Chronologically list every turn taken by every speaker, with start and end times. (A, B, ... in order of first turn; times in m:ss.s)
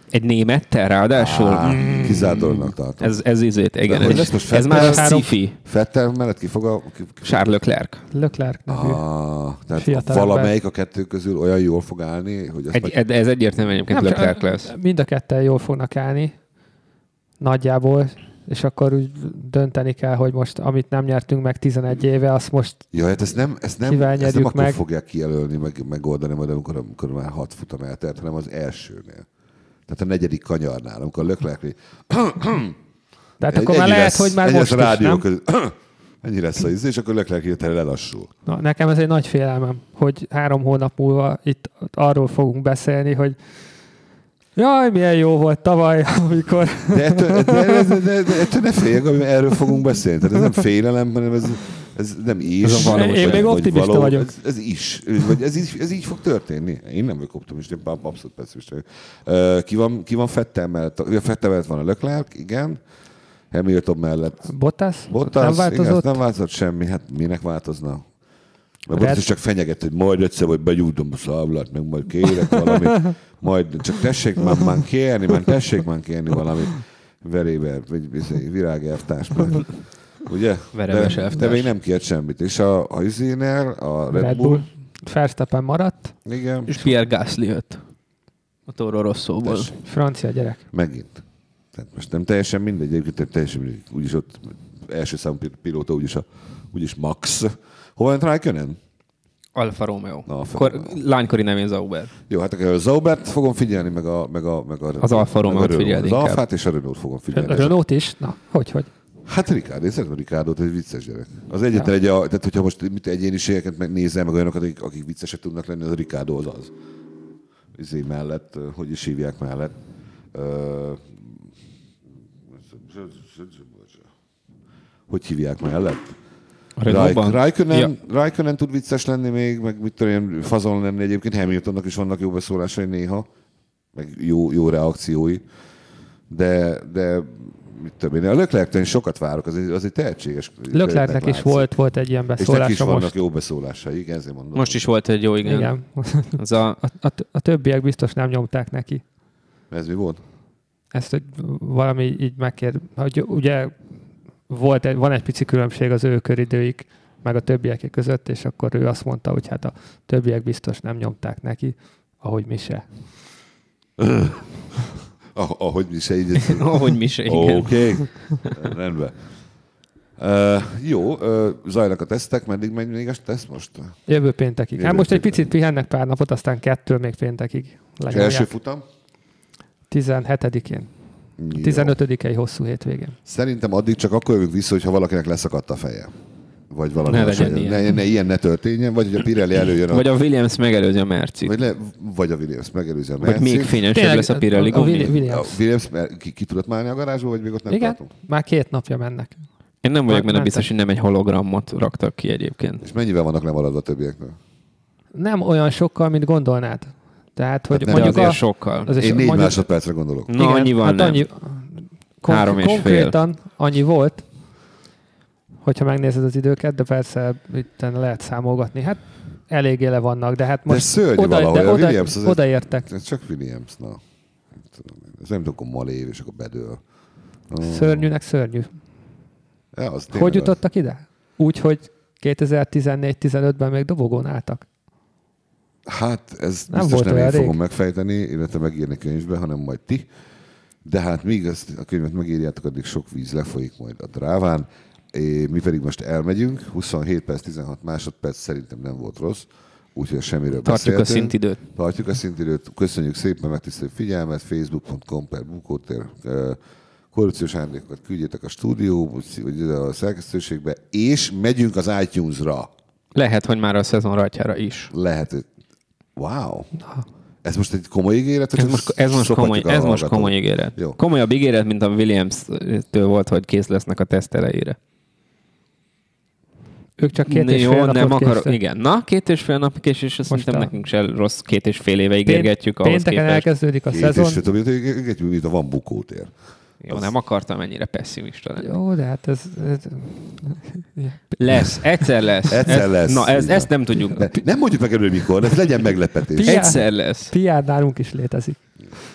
0:00.1-0:05.6 A
0:01.1-0:03.2 B
0:03.8-0:07.4 B
0:04.1-0:05.3 C
0:07.2-0:08.0 A
0:08.1-0:09.0 C
0:08.7-0:13.0 B
0:09.8-0:10.5 C
0:12.7-0:14.7 A
0:13.9-0:16.3 C
0:17.4-0:22.9 C
0:22.9-0:29.2 B
0:23.8-0:24.8 C
0:29.9-0:32.8 B
0:33.4-0:35.2 C
0:33.5-0:38.3 B
0:38.4-0:43.4 C
0:44.6-0:48.0 C
0:46.9-1:02.8 B
0:52.6-0:53.6 A
0:52.8-0:54.3 C
1:03.5-1:04.5 B
1:04.5-1:06.2 C
1:05.1-1:08.1 B
1:08.8-1:19.7 B
1:08.9-1:09.2 C
1:20.2-1:24.7 B
1:20.7-1:21.7 A
1:24.1-1:26.1 C
1:26.2-1:26.8 B
1:26.7-1:27.8 A
1:28.7-1:29.7 A
1:29.4-1:29.8 B
1:29.8-1:30.6 C
1:30.7-1:31.2 B
1:31.7-1:38.8 B
1:39.5-1:42.1 A
1:40.3-1:41.0 B
1:42.3-1:47.7 B
1:45.0-1:46.4 A
1:47.3-1:48.9 C
1:49.2-1:56.7 B
1:57.8-1:59.7 B
2:00.3-2:01.4 B
2:02.7-2:04.0 B
2:05.1-2:06.1 B
2:06.8-2:07.9 A
2:06.8-2:13.3 B
2:13.9-2:15.4 B
2:16.3-2:21.7 B
2:20.7-2:23.1 C
2:22.4-2:24.8 B
2:24.5-2:25.7 A
2:25.4-2:29.0 C
2:26.4-2:26.8 A
2:29.7-2:30.2 B
2:30.9-2:33.7 C
2:34.5-2:42.8 C
2:44.0-2:44.4 B
2:45.3-2:49.2 B
2:46.5-2:48.3 A
2:50.2-2:54.0 B
2:54.1-2:58.5 C
2:54.8-2:55.4 B
2:58.1-2:58.8 B
2:59.9-3:00.9 C
3:01.4-3:02.0 B
3:01.5-3:03.2 C
3:03.2-3:06.1 B
3:06.7-3:10.1 B
3:07.0-3:07.9 A
3:09.9-3:11.5 A
3:11.4-3:13.8 B
3:13.2-3:15.1 A
3:13.9-3:15.6 C
3:14.7-3:18.1 B
3:17.7-3:19.4 C
3:19.8-3:22.8 A
3:20.1-3:20.6 C
3:22.8-3:24.4 B
3:25.1-3:29.6 C
3:27.7-3:28.4 B
3:27.9-3:28.9 A
3:28.9-3:30.3 B
3:30.3-3:31.2 A
3:30.3-3:31.6 C
3:32.2-3:34.2 C
3:32.3-3:33.2 A
3:35.6-3:42.9 C
3:40.7-3:44.0 B
3:44.7-3:46.8 B
3:47.5-3:48.1 B
3:47.6-3:48.7 C
3:49.7-3:50.6 B
3:50.1-3:54.6 C
3:55.8-4:00.0 B
3:56.7-3:57.6 C
4:00.8-4:16.6 B
4:10.6-4:11.6 A
4:17.1-4:22.7 B
4:23.1-4:24.9 A
4:24.9-4:25.5 B
4:26.2-4:26.7 B
4:27.4-4:31.0 B
4:28.6-4:34.8 A
4:37.0-4:38.6 C
4:37.2-4:43.5 A
4:40.3-4:40.7 C
4:42.2-4:44.4 C
4:43.9-4:46.3 B
4:46.8-4:48.7 A
4:48.6-4:51.7 C
4:51.4-4:54.3 A
4:52.5-4:56.5 B
4:56.4-4:58.6 C
4:56.4-4:57.3 A